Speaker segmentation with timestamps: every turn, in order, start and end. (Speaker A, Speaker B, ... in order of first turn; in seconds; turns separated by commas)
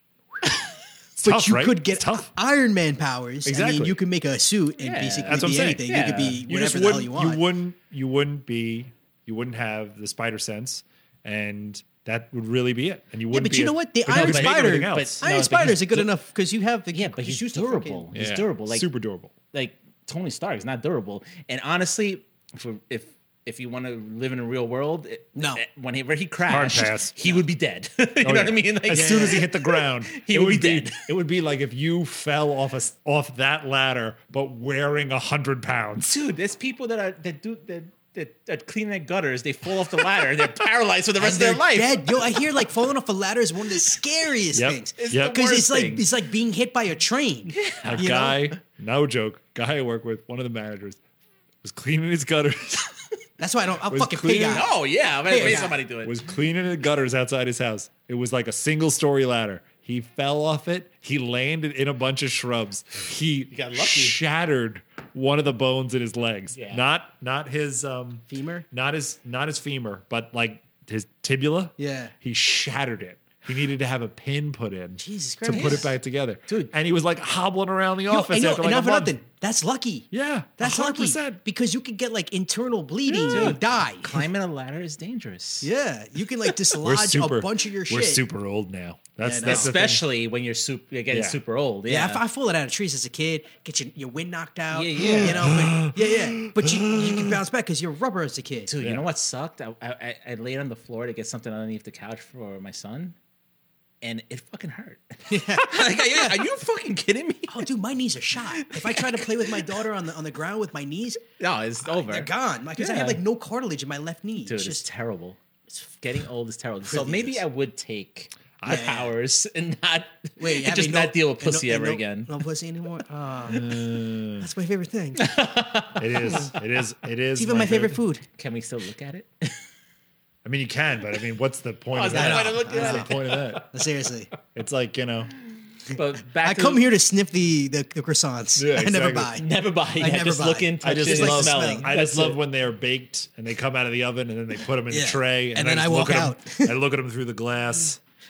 Speaker A: 1.2-2.3, Speaker B: 1.2-7.4, Speaker A: 3.4-4.0, Speaker C: 4.8-6.4, Speaker A: 5.3-5.9, Speaker A: 6.4-15.2, Speaker B: 13.3-18.1, Speaker C: 14.1-16.1, Speaker C: 16.9-18.9, Speaker A: 18.1-19.3, Speaker C: 19.5-31.0, Speaker B: 25.3-25.6, Speaker A: 26.5-27.1, Speaker A: 28.2-36.2, Speaker B: 28.9-29.5, Speaker C: 36.0-42.4, Speaker B: 41.2-48.4, Speaker A: 44.5-45.4, Speaker C: 45.0-46.0, Speaker C: 47.5-48.1, Speaker A: 47.8-51.0, Speaker A: 51.6-52.9, Speaker B: 53.4-55.8, Speaker A: 53.9-54.7, Speaker C: 54.5-56.2, Speaker A: 55.3-79.1, Speaker C: 63.5-64.2, Speaker C: 66.5-66.8, Speaker B: 68.3-68.7, Speaker B: 71.8-72.1, Speaker B: 75.0-75.9, Speaker C: 75.5-75.9, Speaker C: 76.5-76.7, Speaker B: 78.1-84.3, Speaker A: 80.1-81.4, Speaker C: 83.1-85.7, Speaker A: 83.2-83.5, Speaker B: 85.6-88.2, Speaker A: 86.8-90.0, Speaker B: 89.2-89.8, Speaker C: 89.4-92.2, Speaker A: 91.1-91.4, Speaker B: 91.9-98.7, Speaker C: 94.7-95.5, Speaker A: 95.0-97.3, Speaker C: 98.7-103.1, Speaker A: 98.8-99.0, Speaker C: 104.0-107.7, Speaker B: 105.3-106.4, Speaker B: 107.5-111.2, Speaker C: 108.5-109.8, Speaker C: 111.4-113.2, Speaker B: 111.8-114.8, Speaker C: 114.4-115.4, Speaker C: 116.0-122.3, Speaker B: 116.9-117.4, Speaker A: 118.6-118.9, Speaker B: 118.6-119.1, Speaker B: 120.4-125.3, Speaker A: 123.5-124.5, Speaker C: 125.2-126.3, Speaker A: 126.0-128.0, Speaker B: 127.3-128.2, Speaker C: 128.4-129.6, Speaker A: 130.4-133.6, Speaker C: 131.9-133.7, Speaker B: 132.1-133.1, Speaker B: 133.7-134.3, Speaker A: 134.5-135.3, Speaker C: 135.9-136.8, Speaker B: 136.4-141.9, Speaker A: 138.6-139.4, Speaker C: 139.3-142.4, Speaker A: 140.8-148.0, Speaker B: 144.9-146.8